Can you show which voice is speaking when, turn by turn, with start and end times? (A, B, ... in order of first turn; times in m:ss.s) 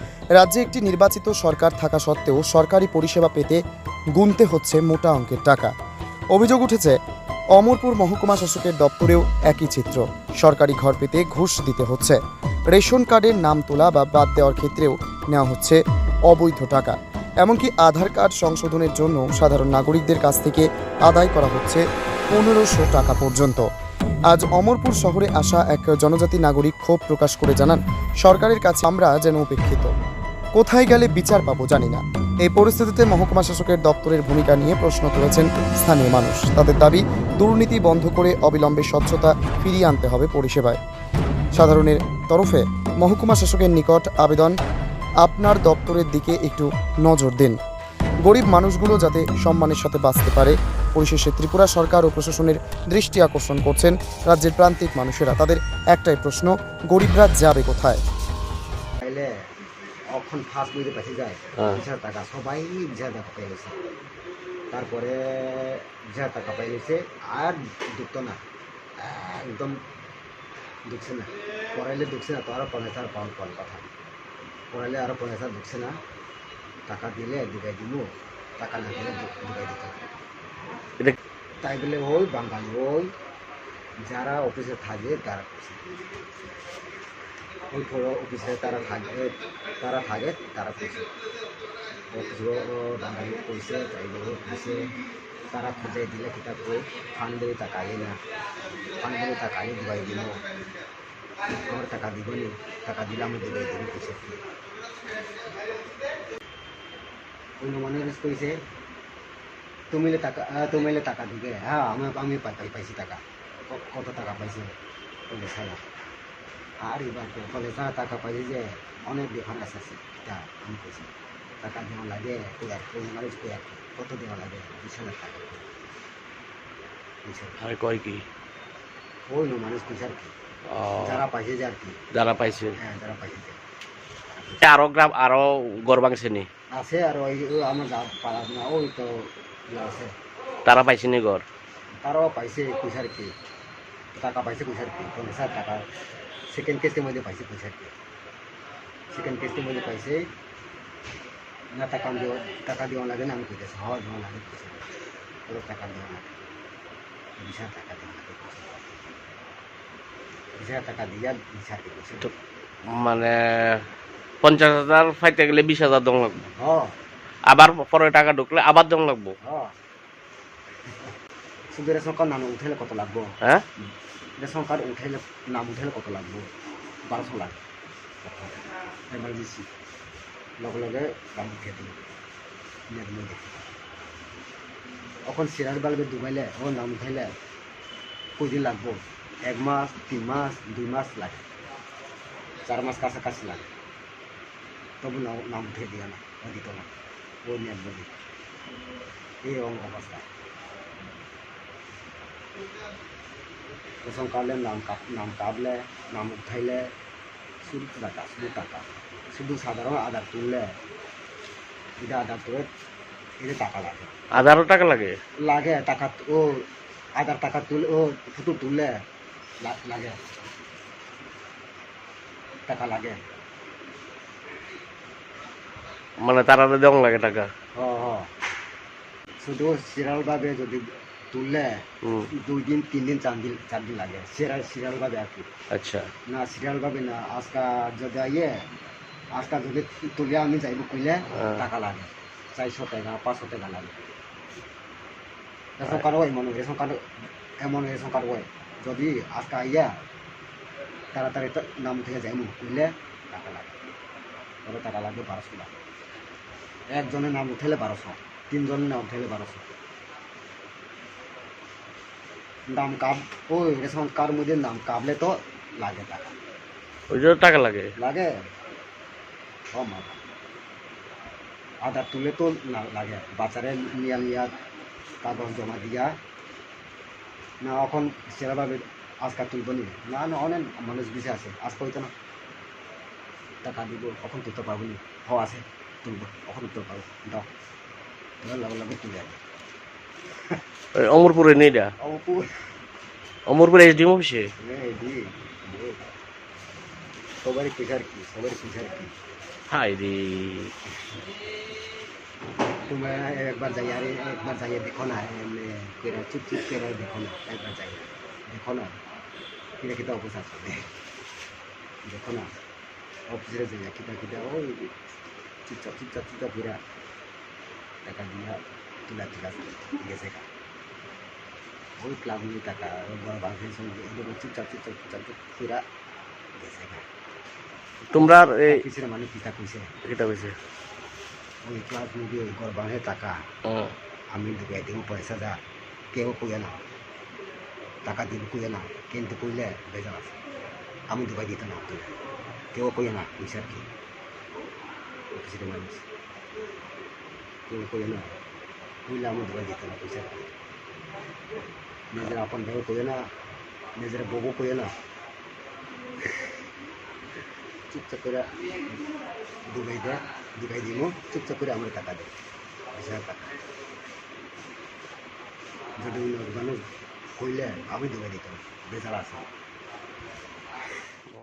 0:00.4-0:03.6 A
0:04.2-0:05.7 A
0:06.3-0:07.0 A
0:07.6-0:12.2 A
0:12.7-0:23.6 A
0:24.3-0:29.9 A
0:30.6-0:40.8 A
0:41.5-0:44.6 A
0:45.2-0:47.6 A
0:48.2-0:58.0 A
0:59.0-0:59.3 B
1:00.1-1:03.8 B
1:04.7-1:08.4 B
1:09.0-1:09.8 B
1:10.8-1:13.8 B
1:14.7-1:16.0 B
1:16.9-1:20.0 B
1:21.6-1:23.1 B
1:24.0-1:25.8 B
1:27.7-1:31.1 B
1:32.1-1:34.8 B
1:35.5-1:38.2 B
1:39.0-1:40.6 B
1:41.4-1:44.4 B
1:47.6-1:48.6 B
1:49.9-1:54.7 B
1:55.3-1:55.8 B
1:56.8-2:01.1 B
2:01.6-2:05.7 B
2:07.2-2:07.6 B
2:07.6-2:08.2 C
2:09.3-2:10.3 B
2:10.7-2:11.2 C
2:11.0-2:12.0 B
2:12.1-2:12.8 C
2:12.7-2:13.6 B
2:14.3-2:14.6 B
2:14.6-2:16.5 C
2:16.7-2:20.1 B
2:20.6-2:21.4 C
2:22.0-2:23.3 B
2:24.1-2:25.9 B
2:26.5-2:28.0 B
2:29.1-2:30.3 B
2:31.7-2:34.9 B
2:35.5-2:36.4 B
2:37.4-2:39.0 B
2:40.6-2:42.3 B
2:42.9-2:43.8 C
2:44.4-2:46.4 C
2:46.5-2:47.0 B
2:47.5-2:49.3 C
2:49.4-2:49.7 B
2:51.7-2:53.4 B
2:54.4-2:56.5 B
2:57.1-2:57.6 B
2:58.2-2:59.7 B
3:00.6-3:02.0 B
3:02.9-3:03.6 B
3:05.2-3:07.3 B
3:08.4-3:11.4 B
3:12.6-3:13.7 B
3:15.0-3:16.9 B
3:17.4-3:18.1 B
3:19.4-3:20.3 B
3:24.0-3:26.9 B
3:27.6-3:30.7 B
3:32.0-3:32.7 B
3:33.4-3:34.1 B
3:34.3-3:35.2 C
3:35.4-3:39.0 B
3:39.6-3:40.2 B
3:42.7-3:43.2 B
3:46.2-3:47.5 C
3:47.7-3:48.3 B
3:49.4-3:55.5 B
3:52.0-3:52.3 C
3:55.7-3:56.1 C
3:56.3-3:58.6 B
3:59.3-4:04.0 B
4:05.8-4:07.0 B
4:07.6-4:09.9 B
4:11.1-4:13.8 B
4:14.6-4:15.7 B
4:16.9-4:19.7 B
4:22.7-4:26.3 B
4:27.1-4:27.9 C
4:28.0-4:28.4 B
4:29.7-4:30.2 B
4:31.8-4:34.5 B
4:35.2-4:36.2 B
4:37.6-4:42.1 B
4:43.6-4:47.5 B
4:48.4-4:49.4 B
4:50.9-4:51.9 C
4:52.0-4:52.5 B
4:53.5-4:54.5 C
4:54.6-4:56.0 B
4:57.4-4:59.1 B
4:59.7-5:00.7 C
5:02.9-5:08.9 B
5:09.8-5:10.9 B
5:12.0-5:12.5 B
5:13.3-5:15.0 B
5:15.6-5:16.8 B
5:18.0-5:20.5 B
5:22.0-5:25.8 B
5:26.6-5:27.0 B
5:28.1-5:28.8 C
5:28.1-5:29.9 B
5:30.0-5:30.6 C
5:31.6-5:33.4 B
5:33.7-5:33.9 C
5:34.3-5:35.6 B
5:36.1-5:36.8 B
5:38.0-5:40.4 B
5:41.1-5:42.1 B
5:42.7-5:43.8 B
5:45.3-5:46.0 B
5:47.7-5:48.4 B
5:49.1-5:50.5 B
5:52.1-5:53.3 B
5:54.0-5:54.9 B
5:57.9-5:59.0 B
5:59.6-6:02.3 B
6:02.9-6:03.5 B
6:06.0-6:06.8 B
6:07.4-6:09.4 B